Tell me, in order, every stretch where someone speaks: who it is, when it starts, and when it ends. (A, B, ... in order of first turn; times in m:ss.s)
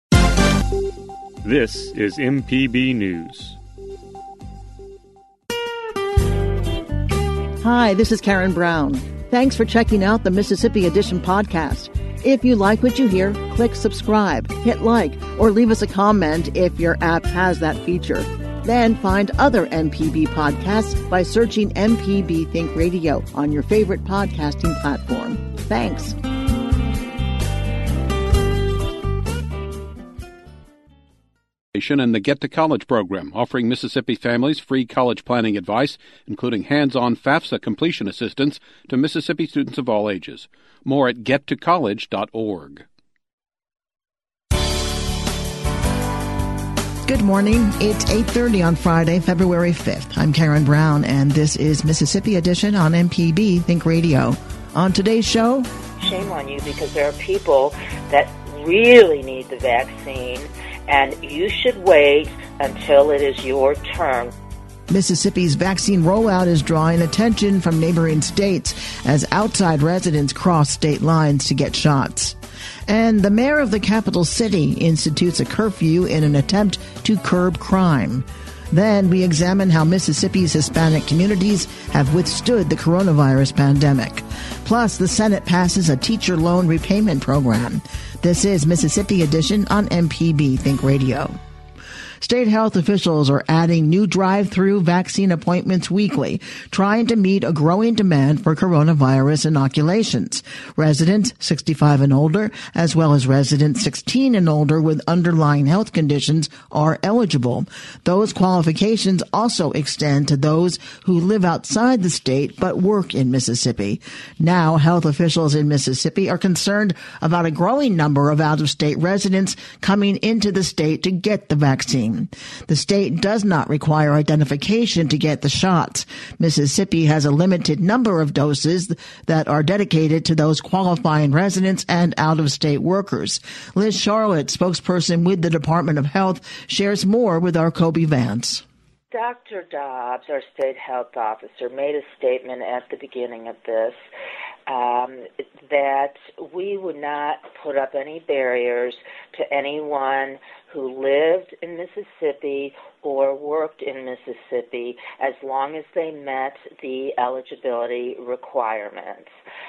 0:01.4-0:03.6 A
0:07.6-0:26.2 B
0:31.8-0:42.9 C
0:47.0-0:55.7 B
0:56.0-1:04.3 D
1:04.9-1:12.4 B
1:12.9-1:31.4 B
1:32.2-2:18.6 B
2:19.1-2:24.0 D
2:24.7-2:39.3 D